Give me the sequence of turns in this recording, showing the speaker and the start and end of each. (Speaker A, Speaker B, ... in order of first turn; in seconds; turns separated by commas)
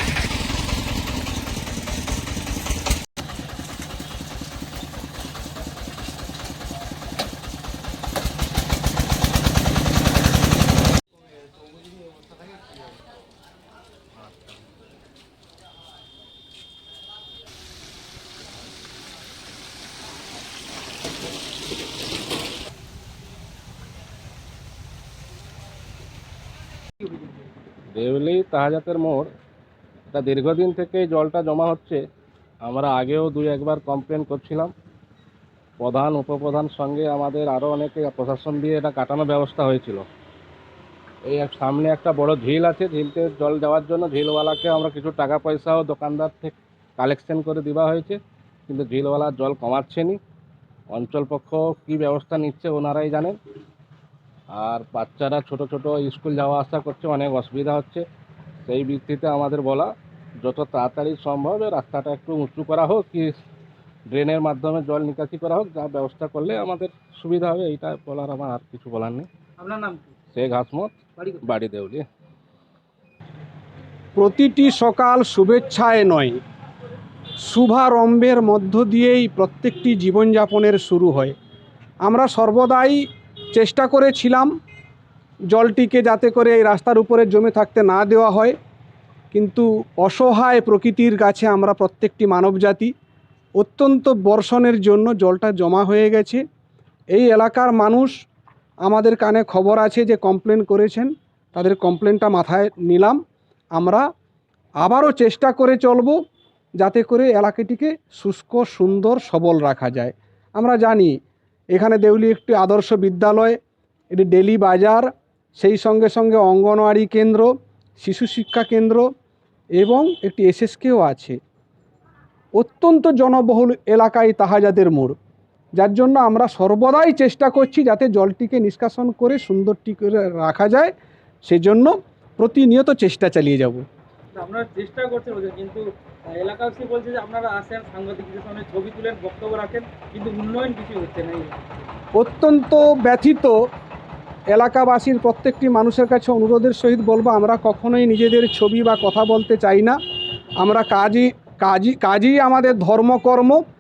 Speaker A: 27.9-29.3, Speaker A: 30.1-32.0, Speaker A: 32.6-34.7, Speaker A: 35.8-40.0, Speaker A: 41.3-48.2, Speaker A: 48.7-50.2, Speaker A: 50.9-53.4, Speaker A: 54.6-58.0, Speaker A: 58.7-59.9, Speaker A: 60.4-63.3, Speaker A: 64.1-69.3, Speaker B: 69.6-70.1, Speaker A: 70.3-72.0, Speaker B: 71.2-71.5, Speaker C: 74.2-76.4, Speaker C: 77.4-81.3, Speaker C: 82.0-84.5, Speaker C: 85.5-88.6, Speaker C: 89.3-92.9, Speaker C: 93.6-96.4, Speaker C: 97.1-98.2, Speaker C: 98.8-103.2, Speaker C: 103.8-104.1, Speaker C: 104.8-106.2, Speaker C: 106.8-111.2, Speaker C: 111.7-113.6, Speaker C: 114.1-119.1, Speaker C: 119.7-121.4, Speaker C: 122.5-125.2, Speaker C: 125.8-133.8, Speaker B: 134.3-141.8, Speaker C: 142.1-143.6, Speaker C: 144.5-150.0, Speaker C: 150.6-153.6